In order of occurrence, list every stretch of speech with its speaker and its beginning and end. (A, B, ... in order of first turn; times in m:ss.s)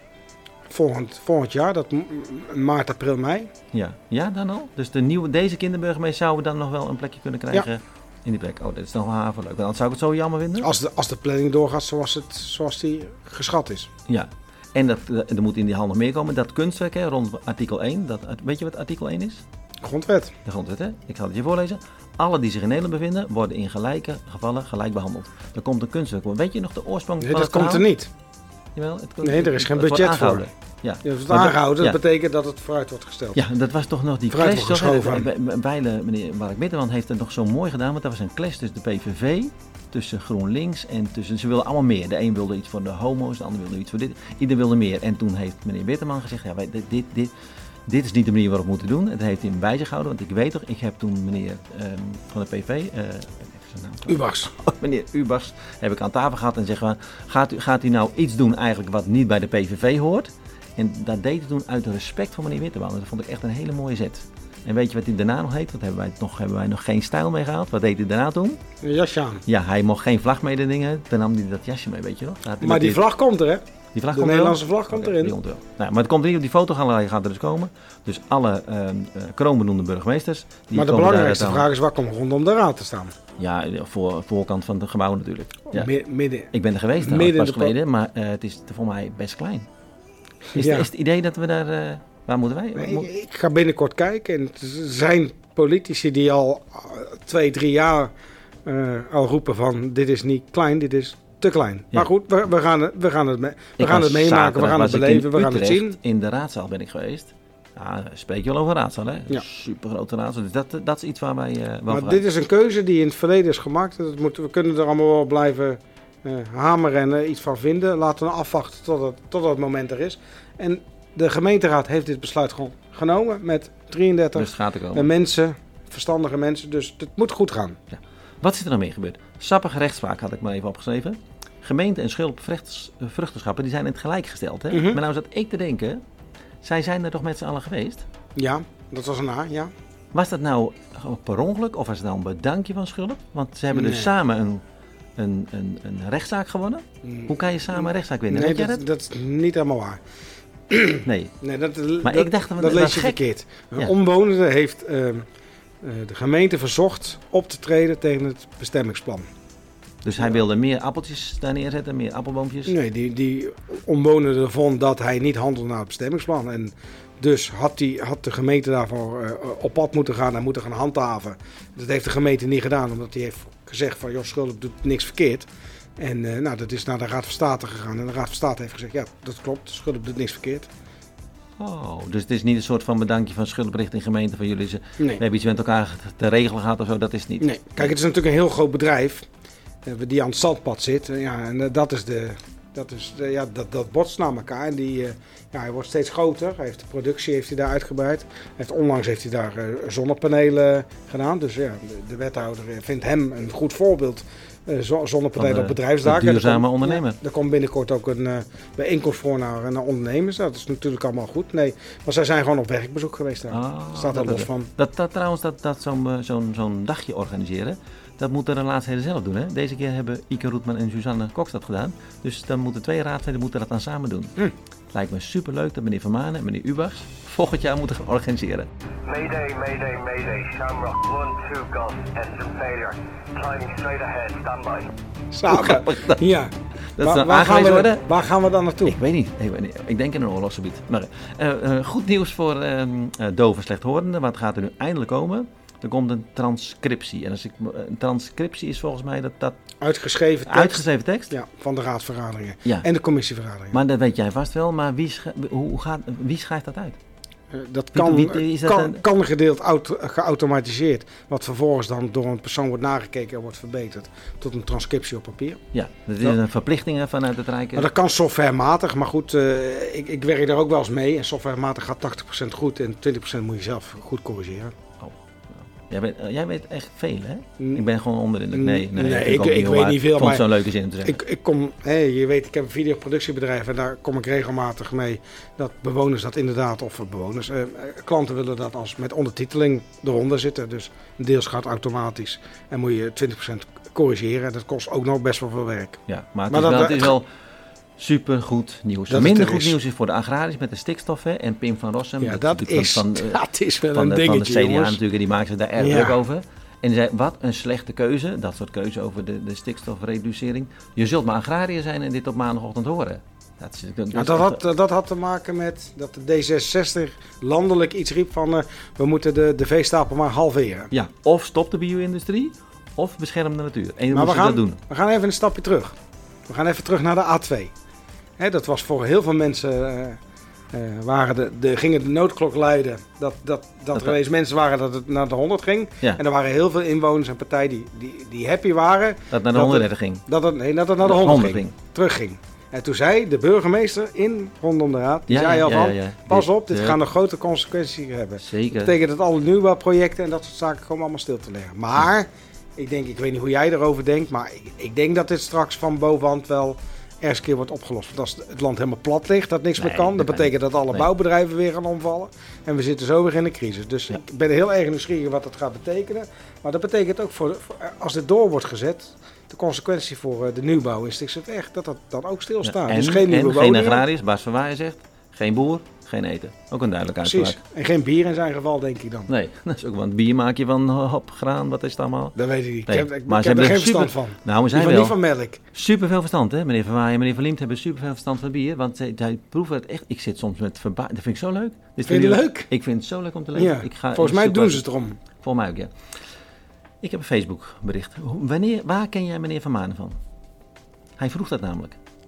0:00.7-0:03.5 A
0:03.7-0:10.7 B
0:10.6-0:13.9 A
0:14.1-0:19.4 B
0:19.8-0:20.4 A
0:20.4-0:27.9 B
0:27.2-0:28.1 A
0:28.8-0:32.0 B
0:29.2-0:30.5 A
0:31.0-0:33.4 A
0:33.4-0:47.3 B
0:34.3-0:35.3 A
0:47.9-1:08.6 B
0:54.1-0:54.5 A
1:08.8-1:09.4 A
1:09.5-1:13.1 B
1:12.6-1:13.6 A
1:13.9-1:21.7 B
1:14.1-1:15.4 A
1:20.7-1:23.1 A
1:23.4-1:25.9 B
1:25.7-1:27.8 A
1:26.5-1:29.7 B
1:30.5-1:30.9 A
1:30.6-1:33.1 B
1:32.8-1:38.1 A
1:38.7-1:46.0 A
1:43.8-1:52.2 B
1:51.9-2:07.8 A
2:04.4-2:05.1 B
2:07.9-2:16.0 B
2:14.7-2:15.0 A
2:16.6-2:18.1 B
2:18.4-2:19.7 A
2:20.1-2:24.6 B
2:23.7-2:24.1 A
2:25.2-2:28.8 B
2:27.0-2:30.0 A
2:30.7-2:35.2 A
2:31.0-2:31.3 B
2:32.0-2:33.2 B
2:35.8-2:39.3 A
2:40.0-2:42.8 B
2:42.7-3:00.7 A
3:01.6-3:07.9 B
3:07.4-3:09.2 A
3:09.8-3:34.7 A
3:25.4-3:27.2 B
3:33.5-3:44.3 B
3:44.9-3:48.7 B
3:49.0-3:54.9 C
3:55.3-3:59.0 A
3:55.5-3:56.2 B
3:57.0-3:58.1 B
3:58.8-4:09.6 B
4:09.8-4:13.8 A
4:10.4-4:11.3 B
4:13.7-4:17.0 B
4:17.5-4:25.6 A
4:17.9-4:19.0 B
4:25.7-4:27.9 B
4:27.8-4:34.7 A
4:35.0-4:41.2 B
4:37.6-4:37.9 A
4:38.5-4:40.5 A
4:41.0-4:56.0 A
4:56.1-4:57.2 B
4:56.5-4:57.1 A
4:58.0-5:14.6 B
4:59.1-4:59.8 A
5:02.2-5:05.0 A
5:05.8-5:06.2 A
5:14.1-5:20.9 A
5:20.9-5:24.8 B
5:24.1-5:26.0 A
5:26.5-5:27.7 A
5:28.4-5:30.2 A
5:30.7-6:14.0 A
5:39.3-5:40.2 B
5:41.0-5:41.8 B
5:45.3-5:47.0 B
5:48.4-5:49.0 B
5:59.8-6:01.1 B
6:12.6-6:17.6 B
6:17.2-6:19.3 A
6:19.3-6:25.2 B
6:22.4-6:25.6 A
6:25.7-6:35.9 B
6:32.0-6:32.7 A
6:33.5-6:35.2 A
6:37.0-6:40.2 B
6:41.2-6:42.0 B